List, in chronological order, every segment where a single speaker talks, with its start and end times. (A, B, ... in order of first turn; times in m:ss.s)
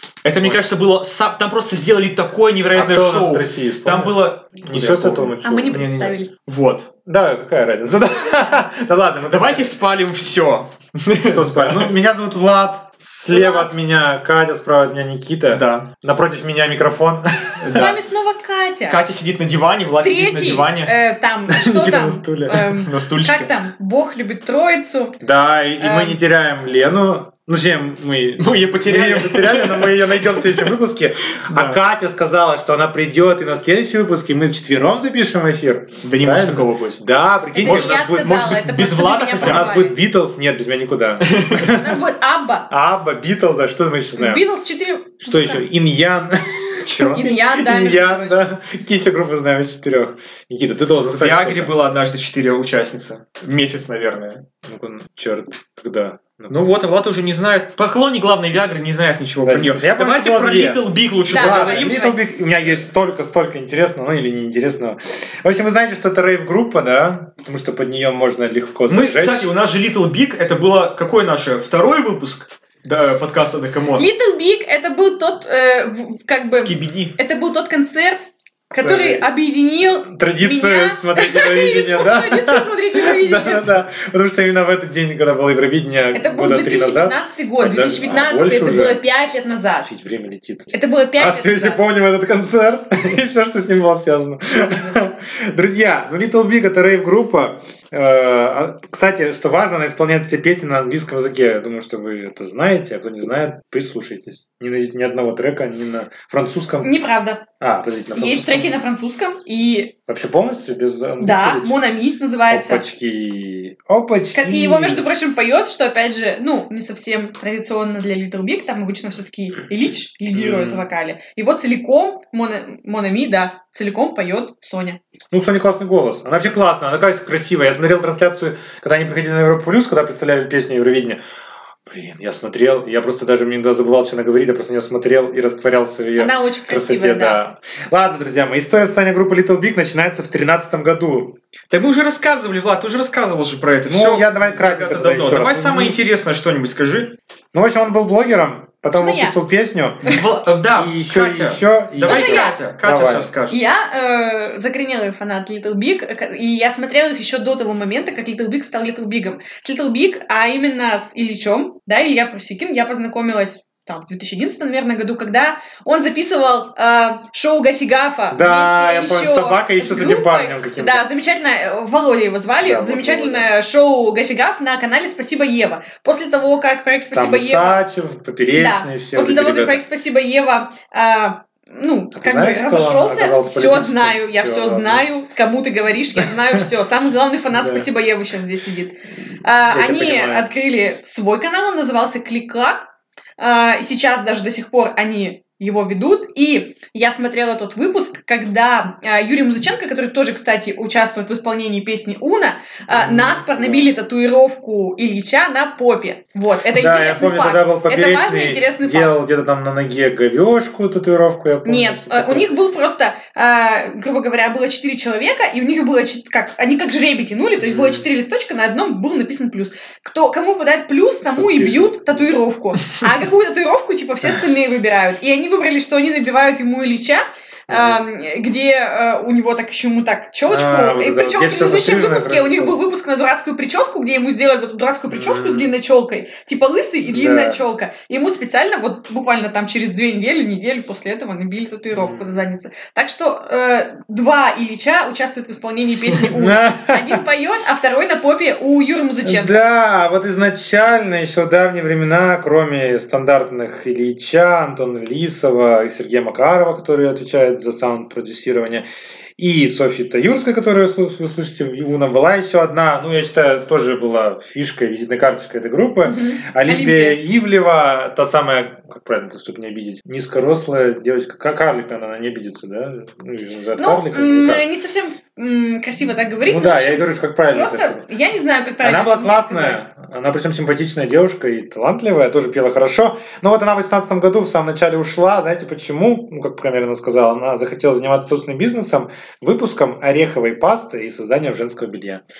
0:00.2-0:06.9 A
0:02.7-0:06.1 B
0:05.4-0:06.3 C
0:07.0-0:09.7 B
0:08.1-0:08.6 C
0:09.3-0:11.9 A
0:11.2-0:17.9 B
0:13.3-0:13.7 C
0:15.5-0:15.9 A
0:17.6-0:18.0 A
0:17.6-0:19.0 C
0:18.9-0:20.9 A
0:20.0-0:25.2 C
0:21.5-0:22.6 B
0:22.6-0:23.5 A
0:25.2-0:38.4 B
0:25.8-0:26.2 C
0:28.4-0:30.7 A
0:31.3-0:31.8 A
0:36.0-0:37.0 A
0:37.5-0:39.9 C
0:37.6-0:39.7 A
0:39.4-0:42.0 B
0:41.3-0:41.7 A
0:41.6-0:42.7 C
0:42.7-0:44.4 B
0:44.2-0:45.6 C
0:45.2-0:51.7 B
0:46.8-0:47.2 A
0:47.1-0:48.4 C
0:51.1-0:54.4 A
0:54.6-0:56.5 B
0:56.5-1:02.0 A
0:59.4-1:09.5 B
1:01.3-1:02.2 C
1:08.9-1:14.1 A
1:13.9-1:23.7 C
1:16.5-1:17.2 A
1:18.8-1:19.3 B
1:20.0-1:29.0 B
1:26.1-1:29.9 C
1:29.8-1:46.9 B
1:30.7-1:31.8 C
1:34.6-1:35.0 C
1:46.8-1:47.4 C
1:47.6-1:48.8 B
1:48.1-1:49.9 C
1:50.1-1:51.8 B
1:51.2-1:52.8 C
1:52.5-1:55.0 B
1:54.3-2:05.0 C
2:00.3-2:00.9 B
2:05.3-2:11.2 B
2:11.9-2:21.4 B
2:16.2-2:17.4 C
2:21.7-2:27.1 A
2:23.9-2:26.0 B
2:27.5-2:30.1 B
2:28.9-2:29.4 C
2:30.0-2:33.6 A
2:30.7-2:33.3 B
2:32.0-2:32.6 C
2:33.5-2:57.8 C
2:48.3-2:51.1 B
2:52.6-2:53.5 B
2:57.1-2:59.8 B
2:58.5-3:29.1 C
3:02.1-3:05.1 B
3:07.5-3:07.9 B
3:09.7-3:10.5 B
3:22.9-3:23.9 B
3:26.7-3:32.5 B
3:31.6-4:09.6 C
3:37.6-3:38.1 B
3:41.4-3:42.3 B
3:47.7-3:48.0 B
3:50.5-3:52.8 B
3:55.1-3:55.7 B
3:57.1-3:57.6 B
4:01.9-4:02.5 B
4:06.3-4:07.2 B
4:09.2-4:18.8 B
4:19.4-4:34.6 B
4:26.0-4:27.2 C
4:33.8-4:39.8 C
4:36.4-4:38.1 B
4:38.8-4:52.2 B